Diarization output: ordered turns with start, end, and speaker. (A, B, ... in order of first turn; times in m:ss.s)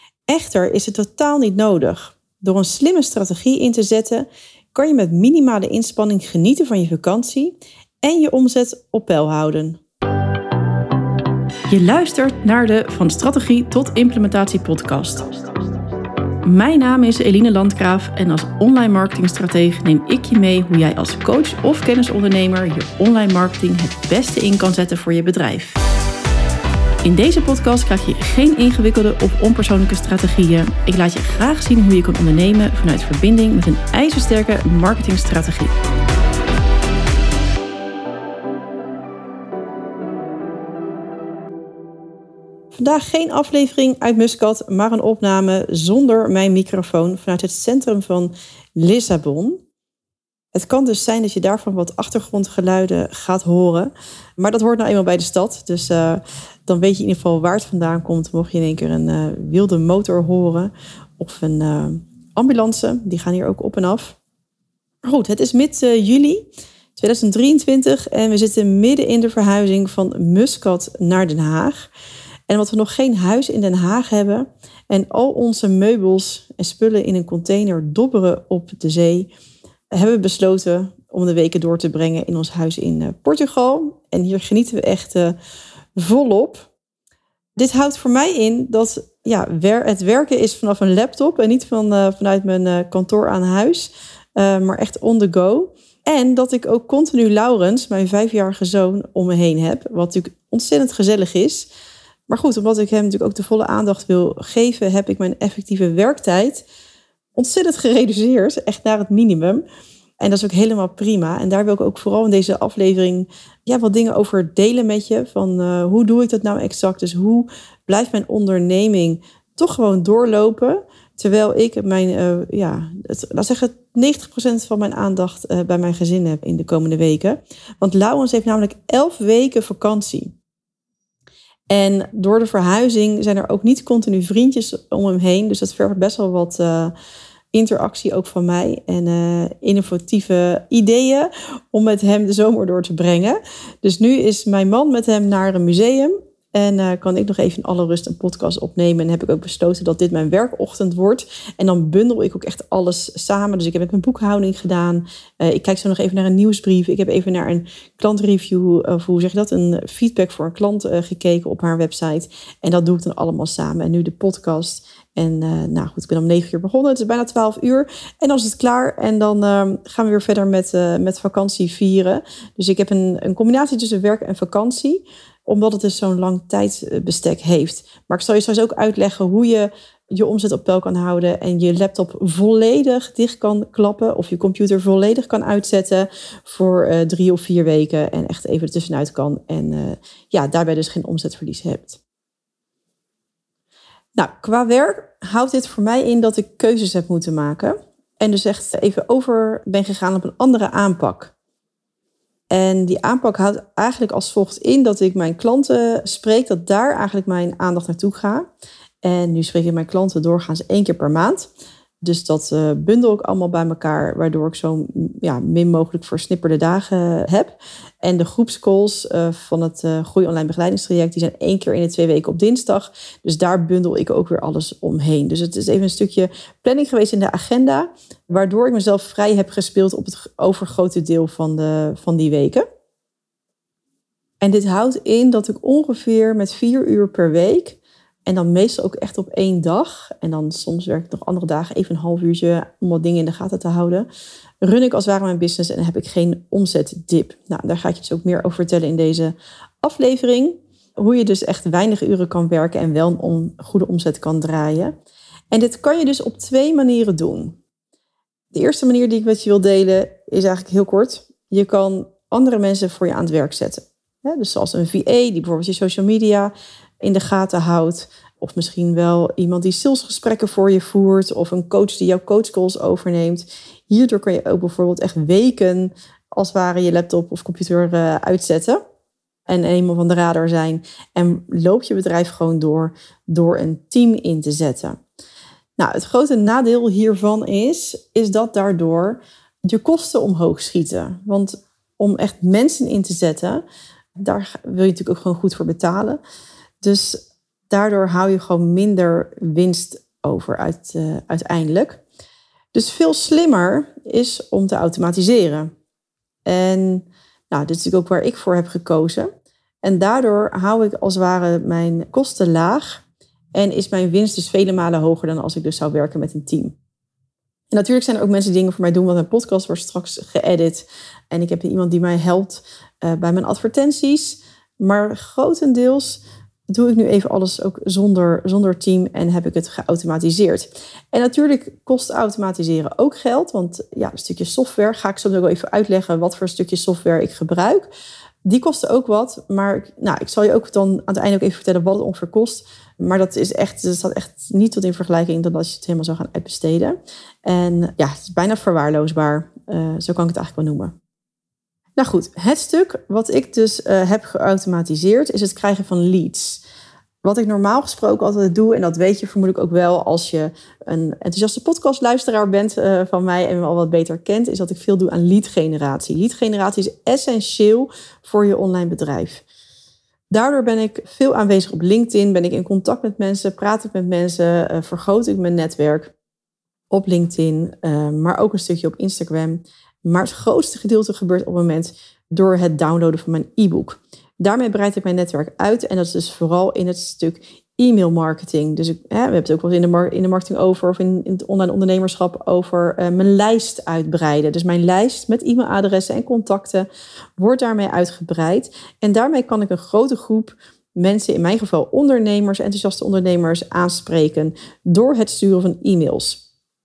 0:00.3-0:09.8 A
0:11.7-0:15.3 A
0:16.4-0:25.8 A
0:27.0-0:35.7 A
0:42.7-0:49.6 A
0:50.5-1:04.2 A
1:05.0-1:11.9 A
1:12.5-1:19.3 A
1:19.9-1:25.4 A
1:26.0-1:26.7 A
1:27.6-1:41.7 A
1:42.3-1:46.7 A
1:47.4-1:49.6 A
1:50.2-2:10.4 A
2:11.7-2:16.9 A
2:17.5-3:12.0 A
3:14.2-3:21.3 A
3:22.5-3:28.5 A
3:29.0-3:31.5 A
3:32.0-3:52.7 A
3:54.4-4:04.1 A
4:04.6-4:14.9 A
4:15.5-4:17.6 A
4:18.5-4:38.8 A
4:39.5-4:45.0 A
4:45.8-4:53.6 A
4:54.2-4:56.2 A
4:56.8-5:02.0 A
5:02.7-5:05.7 A
5:06.5-5:09.3 A
5:09.8-5:13.0 A
5:13.6-5:16.8 A
5:17.7-5:37.9 A
5:38.5-5:50.9 A
5:52.0-5:56.6 A
5:57.2-6:09.4 A
6:10.3-6:16.1 A
6:16.9-6:46.4 A